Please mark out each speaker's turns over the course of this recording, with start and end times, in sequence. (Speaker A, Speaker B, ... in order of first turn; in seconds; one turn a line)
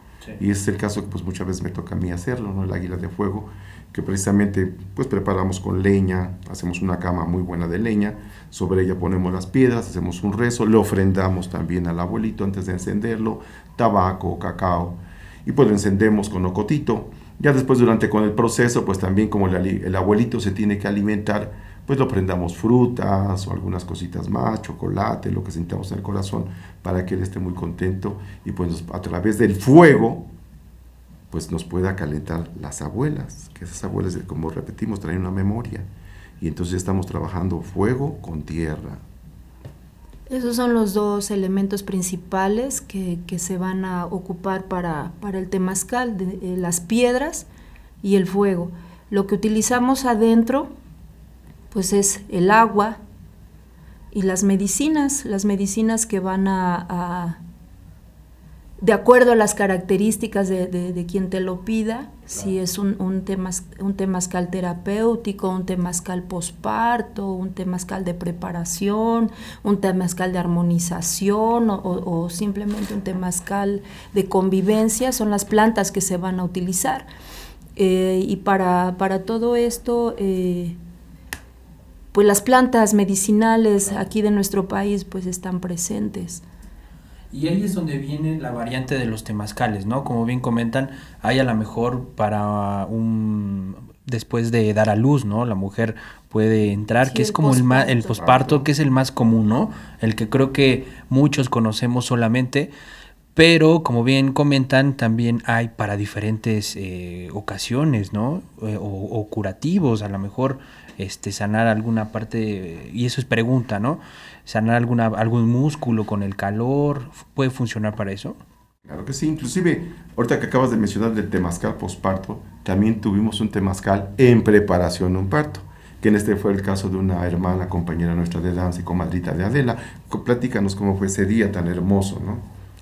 Speaker A: 0.4-30.3
Speaker A: 31.3-35.9
Speaker A: 36.4-39.0
Speaker B: 40.3-47.5
Speaker B: 48.0-50.7
Speaker B: 51.7-53.0
Speaker B: 54.1-57.4
Speaker B: 58.8-77.1
Speaker B: 77.8-80.8
Speaker B: 82.1-86.4
Speaker C: 87.3-102.7
Speaker B: 97.0-98.6
Speaker A: 98.3-98.6
Speaker C: 103.3-118.4
Speaker A: 118.9-132.5